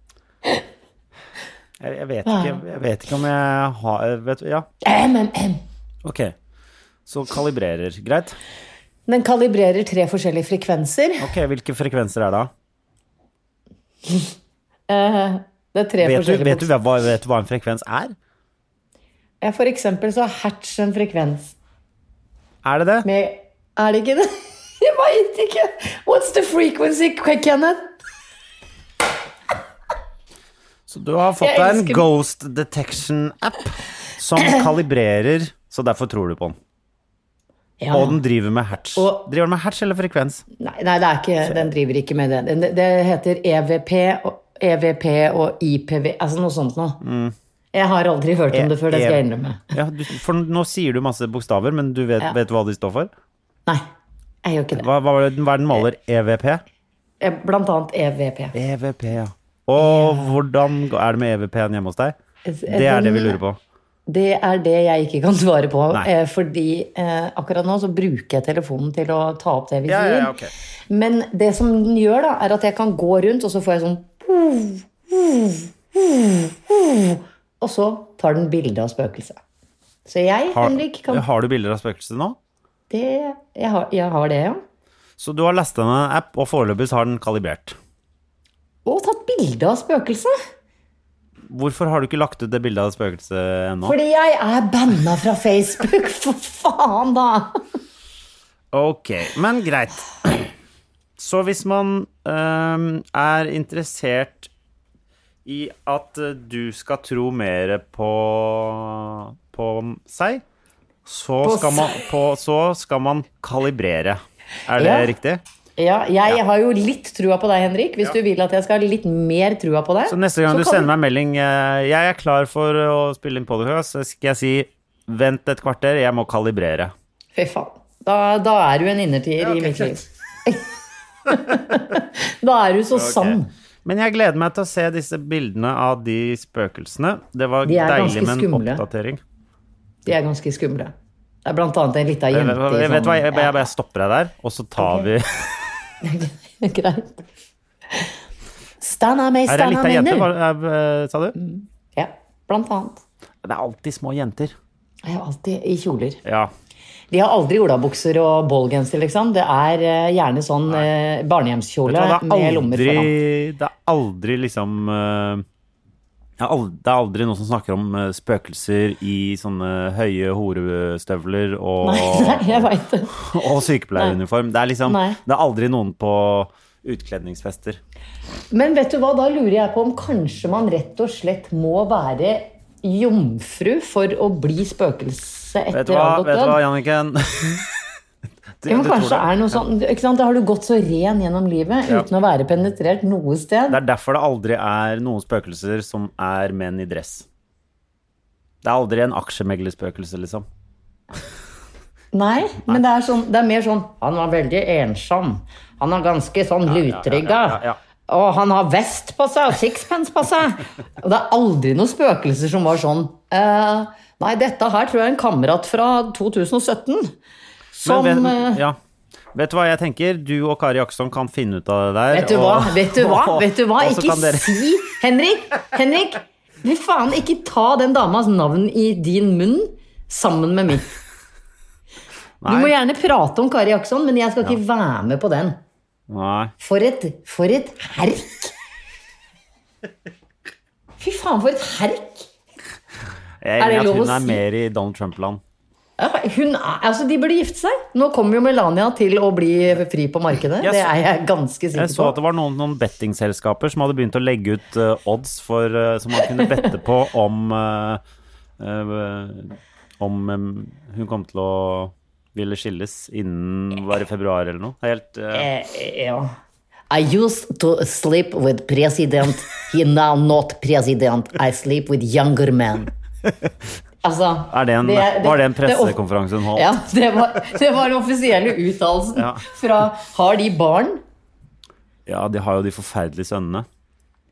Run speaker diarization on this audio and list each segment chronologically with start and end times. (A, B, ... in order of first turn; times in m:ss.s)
0:01.8-0:04.7 A
0:02.3-0:02.6 B
0:04.8-0:05.6 B
0:06.0-0:06.3 A
0:07.1-0:08.4 A
0:09.1-0:11.3 B
0:11.2-0:12.5 A
0:14.9-0:16.7 B
0:16.0-0:18.2 A
0:19.4-0:21.6 B
0:22.6-0:23.1 A
0:23.0-0:27.9 B
0:30.9-0:36.6 A
0:31.4-0:32.0 B
0:37.8-0:38.2 B
0:37.9-0:40.4 A
0:39.0-0:39.3 B
0:40.6-0:47.0 B
0:47.0-0:47.3 A
0:47.7-0:49.6 B
0:48.5-0:53.1 A
0:54.4-0:54.9 B
0:54.8-0:56.6 A
0:57.2-0:58.5 B
0:58.5-1:02.2 A
0:59.8-1:00.4 B
1:02.5-1:03.4 B
1:02.7-1:03.6 A
1:04.1-1:10.3 B
1:09.9-1:10.5 A
1:10.9-1:19.4 B
1:20.1-1:21.2 B
1:20.5-1:22.4 A
1:22.9-1:24.6 B
1:25.2-1:27.8 A
1:28.8-1:30.4 B
1:31.5-1:34.0 A
1:33.8-1:37.5 B
1:38.7-1:40.5 A
1:41.2-1:44.5 A
1:45.4-1:50.4 A
1:51.1-1:55.4 A
1:51.4-1:52.0 B
1:54.8-1:55.1 B
1:55.8-2:00.9 B
2:00.1-2:06.9 A
2:07.4-2:10.7 B
2:09.4-2:10.0 A
2:11.3-2:13.5 B
2:12.9-2:19.2 A
2:17.6-2:18.8 B
2:20.1-2:20.9 B
2:21.4-2:23.6 B
2:22.3-2:25.7 A
2:24.8-2:25.1 B
2:26.0-2:27.2 B
2:28.8-2:30.3 B
2:29.5-2:31.4 A
2:31.4-2:33.0 B
2:33.4-2:34.6 A
2:35.0-2:36.2 B
2:36.2-2:36.5 A
2:37.1-2:43.1 B
2:41.9-2:45.4 A
2:46.4-2:57.8 A
2:51.8-2:53.4 B
2:54.9-2:55.2 B
2:58.5-3:06.6 B
3:05.7-3:07.6 A
3:08.6-3:09.6 A
3:08.7-3:13.8 B
3:13.7-3:17.3 A
3:18.6-3:20.4 A
3:22.1-3:37.1 B
3:26.7-3:27.8 A
3:37.8-3:38.6 B
3:37.8-3:38.8 A
3:39.3-3:44.6 A
3:42.1-3:51.0 B
3:52.4-3:52.7 A
3:52.5-3:55.6 B
3:56.1-3:56.5 A
3:56.6-3:58.5 B
4:01.0-4:02.3 B
4:03.4-4:05.4 A
4:03.6-4:04.4 B
4:06.0-4:12.2 B
4:10.6-4:10.9 A
4:11.7-4:18.0 A
4:18.6-4:25.5 A
4:25.4-4:26.3 B
4:26.9-4:32.9 B
4:34.0-4:36.0 B
4:34.5-4:36.7 A
4:36.6-4:41.0 B
4:39.2-4:39.5 A
4:42.1-4:43.7 A